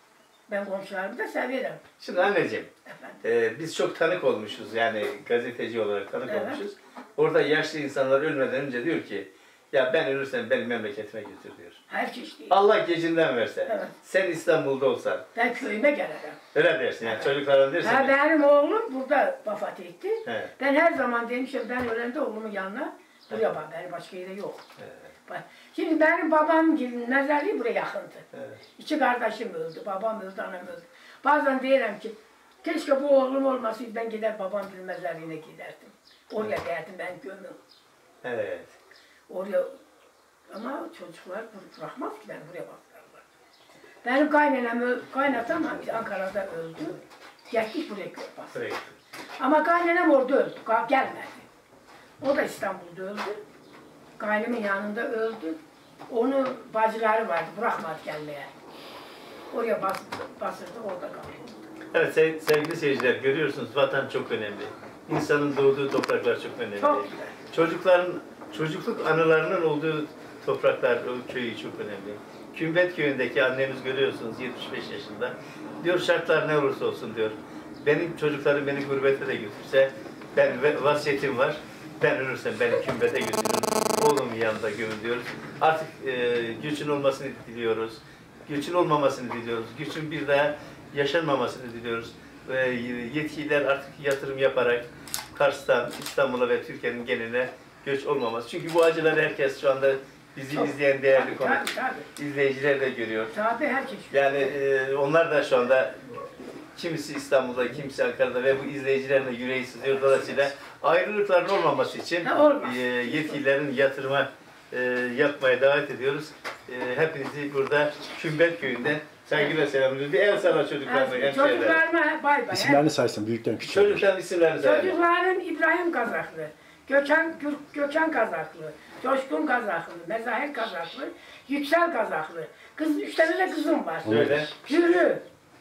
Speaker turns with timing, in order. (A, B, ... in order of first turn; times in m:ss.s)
0:00.5-0:01.8 A
0:02.0-0:02.7 B
0:02.9-0:03.2 A
0:03.2-0:11.8 B
0:06.2-0:06.6 A
0:11.9-0:12.6 A
0:12.5-0:15.2 B
0:13.7-0:13.9 A
0:15.3-0:16.4 A
0:16.5-0:18.1 B
0:17.0-0:24.6 A
0:20.2-0:20.5 B
0:25.3-0:28.2 A
0:28.8-0:37.6 A
0:38.2-0:38.8 B
0:39.3-0:39.7 A
0:40.5-0:43.2 A
0:44.0-0:48.6 A
0:48.5-0:48.9 B
0:49.4-0:51.4 A
0:52.2-0:53.4 A
0:54.2-0:55.6 A
0:56.1-0:58.5 A
0:59.5-1:01.6 A
1:01.9-1:41.6 B
1:06.8-1:07.3 A
1:40.5-1:42.1 A
1:42.2-1:43.3 B
1:43.3-1:44.5 A
1:44.1-1:46.0 B
1:46.7-2:01.8 B
1:52.2-1:53.4 A
2:00.8-2:02.9 A
2:02.5-2:04.0 C
2:03.6-2:05.0 B
2:04.6-2:15.2 A
2:14.0-2:14.5 C
2:14.1-2:14.5 B